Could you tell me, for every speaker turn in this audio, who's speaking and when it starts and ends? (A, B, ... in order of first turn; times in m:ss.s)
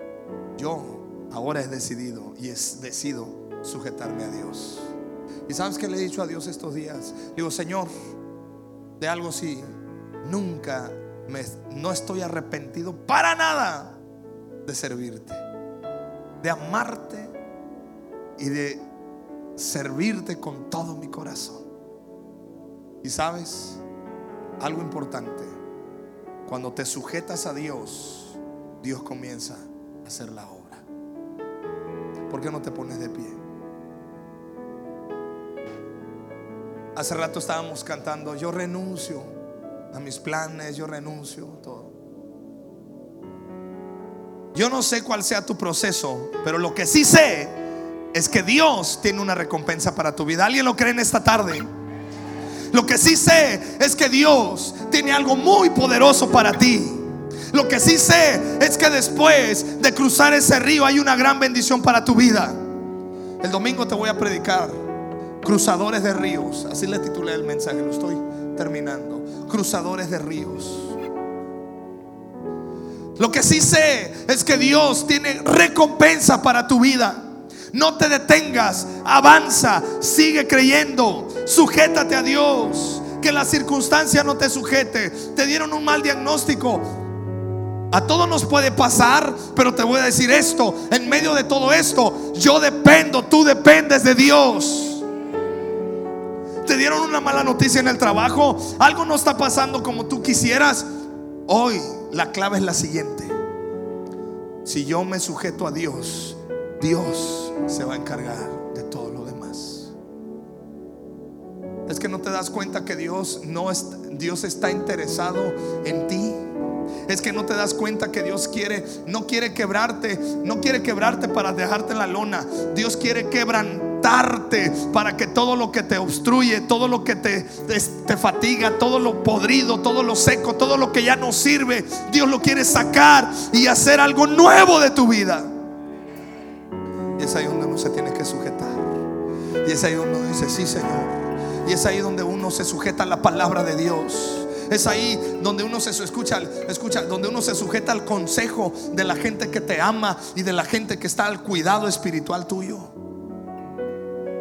0:00.6-0:04.9 A
0:05.5-0:07.9 A
0:09.0-0:14.0 A
0:14.6-0:15.4 A
0:16.4-0:17.3 A
0:18.4-0:18.8 A
0:19.6-0:21.7 A
0:23.0-0:23.8 A
0:24.6-0:25.6 A
0:26.4-0:30.8 A
0:32.3-0:33.4 A
0:36.9-0:39.4 A
0:39.9-0:41.9 A
0:44.5-0:47.6 A
0:48.1-0:51.7 A
0:52.7-1:02.6 A
1:03.4-1:04.8 A
1:05.4-1:11.0 A
1:13.2-1:26.8 A
1:27.9-1:35.0 A
1:36.6-1:40.8 A
1:41.5-1:43.3 A
1:44.6-1:49.9 A
1:51.9-1:56.5 A
1:57.1-2:15.5 A
2:17.2-2:18.9 A
2:19.6-2:32.9 A